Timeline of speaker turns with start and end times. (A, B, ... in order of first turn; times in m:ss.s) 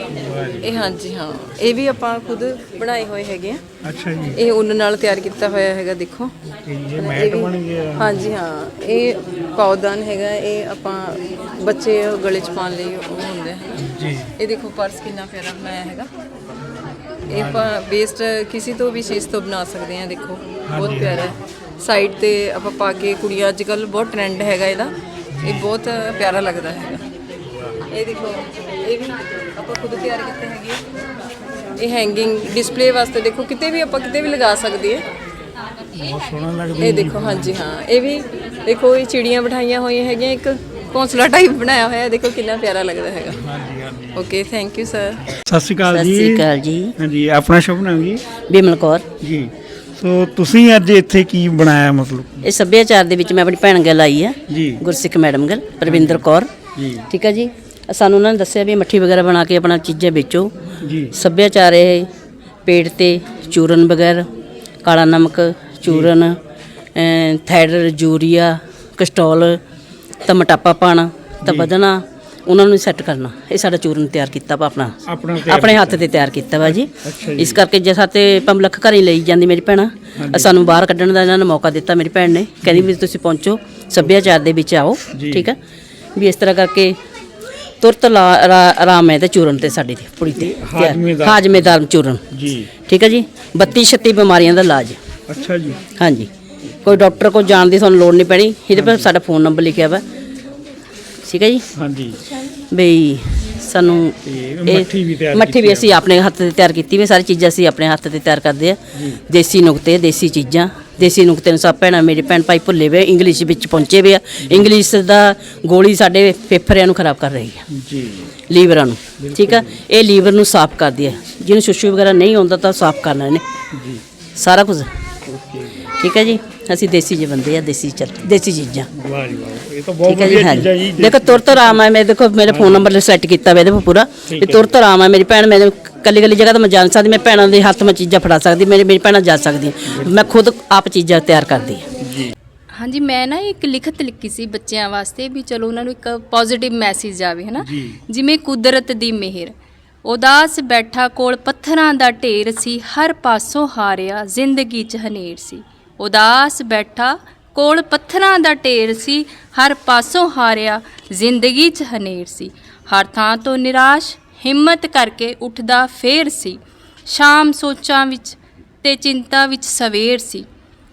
0:00.1-0:00.8 A
0:00.6-0:03.6 B
0:03.8-0:04.4 A
0:04.3-0:06.3 B
0:06.6-0:08.4 A
0:07.0-0:13.9 B
0:13.8-0:14.3 A
0:14.4-0:16.1 B
0:17.3-0:17.7 A
0:17.3-0:24.9 B
0:20.6-0:21.4 A
0:25.3-0:25.7 A
0:25.4-0:27.0 B
0:27.4-0:27.8 A
0:27.9-0:30.8 B
0:31.8-0:35.0 B
0:36.0-0:37.6 A
0:36.8-0:43.4 B
0:43.3-0:44.3 A
0:44.2-0:45.2 B
0:45.3-0:46.4 A
0:45.9-0:46.9 C
0:47.0-0:48.2 A
0:48.5-0:49.0 C
0:49.2-0:52.4 A
0:52.4-0:56.5 C
0:54.5-0:54.8 A
0:55.8-0:56.2 A
0:56.8-0:57.1 A
0:57.1-1:00.5 C
1:00.8-1:01.1 A
1:01.1-1:02.1 C
1:02.6-1:04.2 C
1:04.8-1:06.4 C
1:05.8-1:06.1 A
1:07.0-1:09.6 C
1:10.2-1:25.6 C
1:11.4-1:11.7 A
1:15.0-1:16.0 A
1:17.0-1:17.6 A
1:20.2-1:20.5 A
1:22.6-1:22.9 A
1:24.0-1:24.2 A
1:25.1-1:25.5 A
1:26.2-1:27.0 C
1:27.8-1:32.2 C
1:30.3-1:31.7 A
1:32.3-1:32.7 A
1:32.7-1:35.0 C
1:35.3-1:35.8 A
1:36.0-1:36.3 C
1:36.8-1:40.0 C
1:36.8-1:37.2 A
1:38.7-1:39.1 A
1:41.2-1:41.6 C
1:41.8-1:42.2 A
1:42.7-1:57.6 C
1:44.2-1:46.0 A
1:48.9-1:49.2 A
1:57.7-1:58.3 A
1:58.5-2:03.4 C
1:59.2-1:59.8 A
2:03.7-2:04.0 A
2:04.4-2:04.9 C
2:05.3-2:05.9 A
2:06.0-2:08.9 C
2:08.9-2:11.8 A
2:10.0-2:21.9 C
2:12.5-2:12.8 A
2:14.3-2:14.7 A
2:19.9-2:20.3 A
2:22.0-2:22.3 A
2:22.7-2:29.5 D
2:27.6-2:28.0 A
2:30.0-2:50.4 D